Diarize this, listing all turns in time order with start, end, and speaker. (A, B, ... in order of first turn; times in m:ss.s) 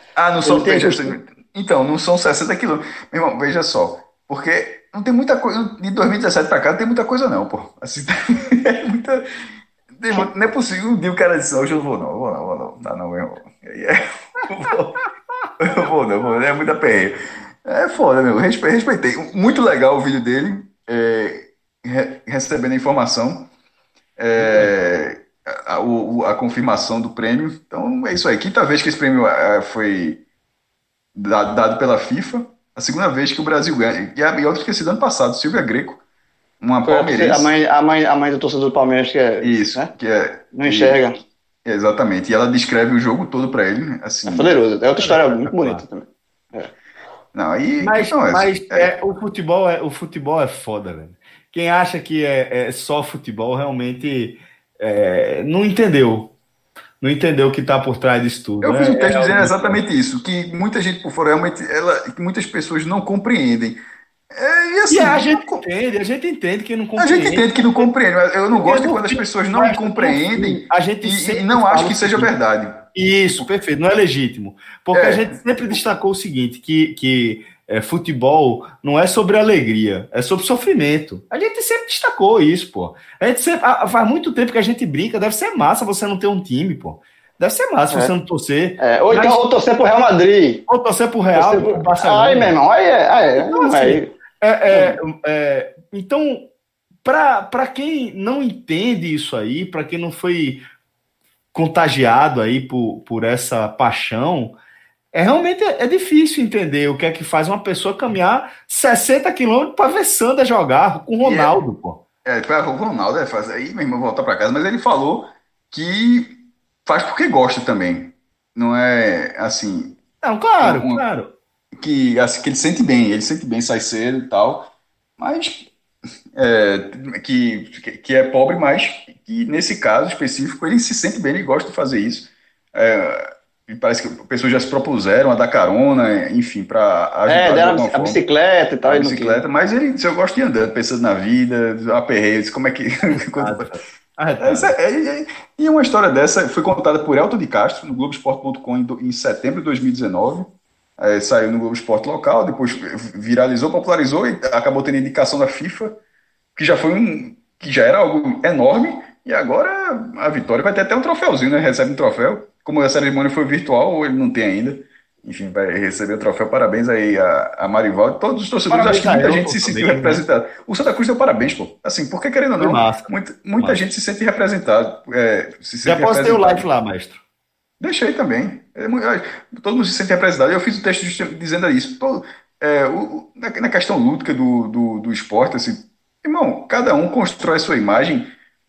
0:00.2-0:09.3 A
0:00.4-0:01.2 B
0:09.9-0:14.9 A
0:15.6-0:23.5 A
0:24.2-0:30.2 A
0:31.2-0:36.0 A
0:36.6-0:37.5 A
0:36.9-0:39.9 B
0:39.4-0:41.0 A
0:40.5-0:41.2 B
0:41.6-0:44.5 A
0:44.3-0:46.7 B
0:45.0-0:45.8 C
0:47.3-0:48.9 A
0:47.8-0:56.3 C
0:57.0-0:59.8 C
0:58.6-1:03.8 A
1:04.3-1:05.6 A
1:04.9-1:07.9 C
1:07.0-1:13.5 A
1:08.6-1:12.3 C
1:12.9-1:29.4 C
1:14.9-1:15.4 A
1:28.8-1:30.6 B
1:30.7-1:32.5 C
1:31.3-1:34.1 B
1:33.4-1:36.5 C
1:34.7-1:35.0 B
1:37.0-1:40.6 C
1:41.5-1:44.6 C
1:45.1-1:52.0 C
1:51.2-1:51.6 A
1:52.2-2:00.0 A
2:00.2-2:01.3 C
2:00.6-2:01.0 A
2:01.8-2:05.7 A
2:06.4-2:18.2 A
2:17.3-2:19.4 B
2:18.8-2:23.7 A
2:23.4-2:24.8 C
2:24.4-2:36.0 A
2:36.6-2:56.6 A
2:48.7-2:50.2 C
2:52.6-2:53.8 C
2:55.8-2:57.2 C
2:57.8-3:08.3 A